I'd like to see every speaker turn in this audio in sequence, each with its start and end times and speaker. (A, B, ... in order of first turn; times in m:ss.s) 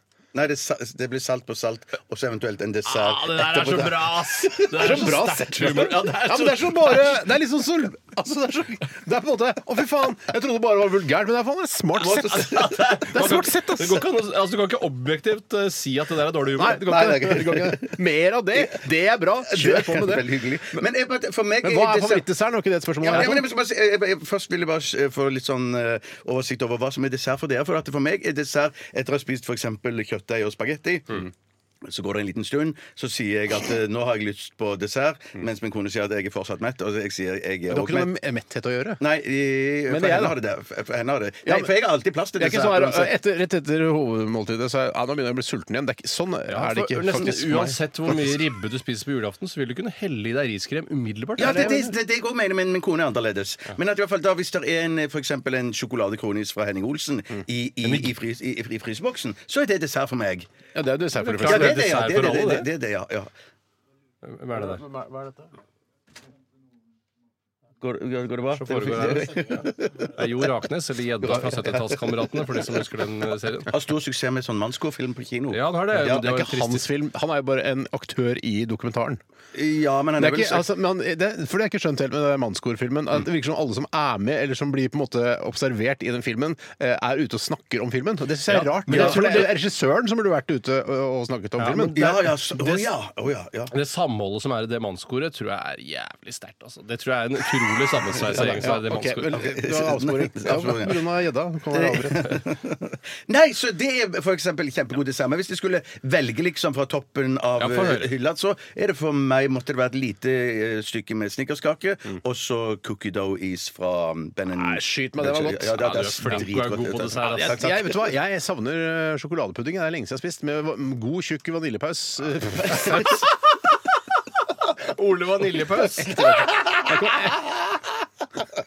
0:00.3-0:05.0 A
0:02.8-0:07.0 B
0:04.7-0:14.1 C
0:12.0-0:13.0 A
0:12.5-0:17.2 B
0:16.6-0:20.8 C
0:16.8-0:18.0 A
0:19.4-0:22.3 A
0:21.6-0:23.5 C
0:23.0-0:31.3 A
0:31.8-0:38.1 A
0:37.7-0:39.0 C
0:39.0-0:43.1 A
0:39.9-0:40.4 C
0:42.4-0:48.3 C
0:46.5-0:51.8 B
0:51.4-1:00.5 A
0:51.4-0:51.9 C
0:57.8-0:58.1 B
1:00.7-1:01.8 C
1:01.2-1:02.7 B
1:01.4-1:03.3 A
1:04.2-1:04.8 B
1:04.6-1:05.5 C
1:07.8-1:10.2 A
1:08.5-1:13.7 B
1:11.3-1:12.2 A
1:13.6-1:16.3 A
1:15.5-1:16.8 B
1:15.9-1:19.2 C
1:19.5-1:20.7 A
1:20.2-1:32.0 C
1:28.5-1:29.5 B
1:28.9-1:29.5 A
1:31.6-1:32.9 B
1:31.9-1:33.7 A
1:33.7-1:39.4 B
1:38.2-1:42.4 C
1:39.3-1:41.0 A
1:41.7-1:58.1 A
1:47.6-1:48.1 B
1:54.5-1:56.5 C
1:55.7-1:57.6 B
1:57.2-2:03.2 C
2:04.8-2:06.5 B
2:06.1-2:07.3 A
2:06.8-2:07.5 C